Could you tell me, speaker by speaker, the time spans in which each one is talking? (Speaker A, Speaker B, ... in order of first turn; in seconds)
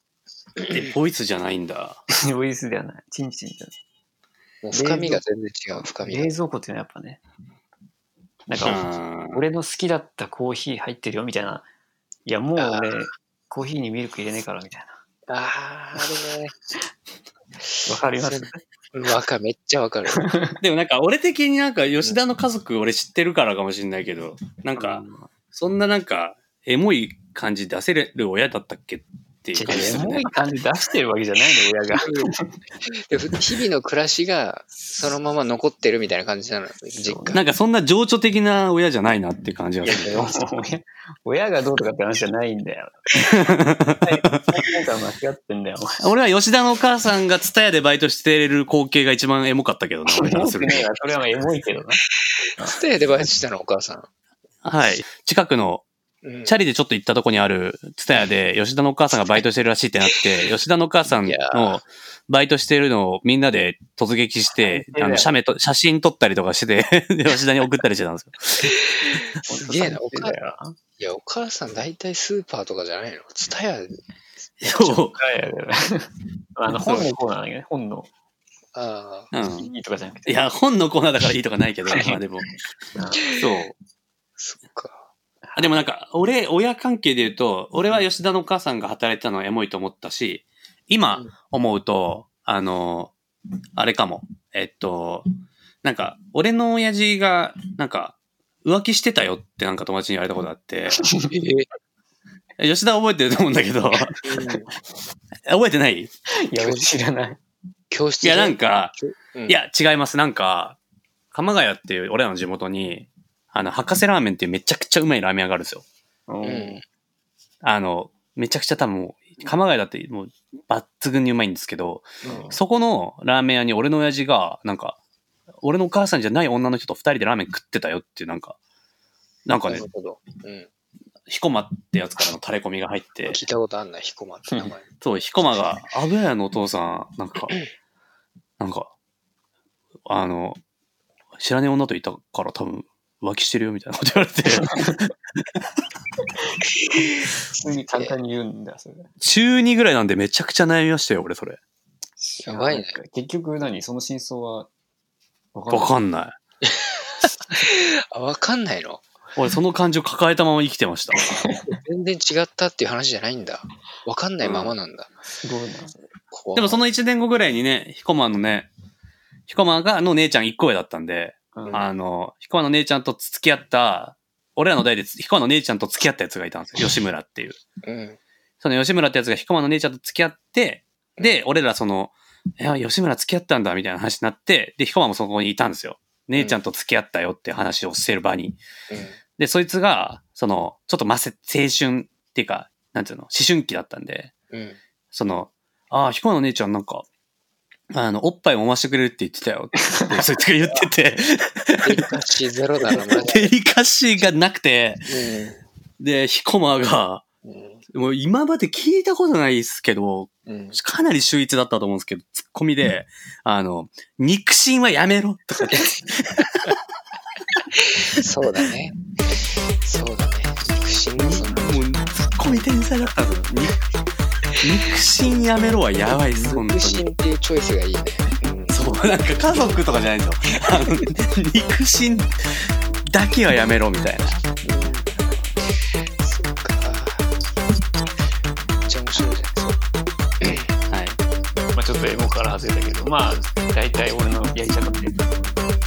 Speaker A: 0.6-0.9, 4.6-6.3, 12.6-13.0, 15.3-16.5, 18.2-20.2, 29.7-30.0, 32.0-32.3, 32.9-37.5, 40.0-40.3, 52.6-54.1, 56.2-56.5, 61.2-61.8, 68.9-70.3, 71.0-75.0, 78.7-79.3, 84.4-85.1, 101.3-101.7, 104.2-104.7, 106.5-106.9, 107.9-109.6, 116.4-116.8, 122.2-122.5, 129.7-130.7, 133.3-134.9, 152.4-152.9, 156.6-159.0, 161.7-165.1, 166.3-166.8, 177.8-178.2, 188.9-189.2, 194.5-194.8, 201.8-203.5, 205.1-205.6, 207.4-207.8, 210.5-210.8, 217.8-218.9, 219.8-221.7, 226.3-228.8, 234.6-235.1, 235.9-237.3, 238.8-239.8, 240.4-240.7
Speaker B: 0.7-2.0, 8.6-9.4, 20.6-30.3, 37.3-40.2, 43.2-44.6, 46.0-50.9, 54.6-55.8, 56.4-68.8, 74.6-75.2, 76.7-77.1, 79.3-79.7, 80.2-82.5, 83.3-83.7, 85.6-93.1, 93.8-95.3, 95.8-101.0, 102.6-104.2, 105.5-106.1, 108.2-108.9, 109.5-110.8, 111.3-115.8, 117.6-125.0, 125.6-128.6, 129.4-129.8, 131.3-133.4, 135.0-137.6, 138.6-138.9, 140.1-140.6, 141.4-144.9, 149.2-151.6, 155.7-156.3, 159.3-161.3, 164.4-164.7, 166.5-168.7, 169.5-177.6, 178.6-188.6, 189.4-194.3, 195.1-197.1, 197.9-202.1, 202.9-205.1, 206.0-207.2, 207.9-216.7, 221.2-223.8, 224.5-227.1, 228.7-234.4, 240.9-241.2
Speaker C: 2.1-3.8, 4.7-5.2, 5.7-7.2, 8.5-11.7, 12.2-15.0, 17.8-18.6, 20.1-20.6, 24.8-25.3, 29.5-32.5, 37.0-37.4, 39.8-46.0, 50.1-52.0, 64.6-65.3, 69.5-70.8, 75.1-78.1, 79.5-80.5, 81.9-82.2, 82.9-83.4, 85.5-85.7, 101.0-101.3, 106.3-107.4, 116.3-116.8, 122.2-122.6, 134.5-134.8, 144.5-145.1, 146.4-149.1, 152.2-154.7, 155.5-155.9, 161.2-161.8, 165.4-165.9, 171.5-171.8, 199.8-200.1, 241.7-245.6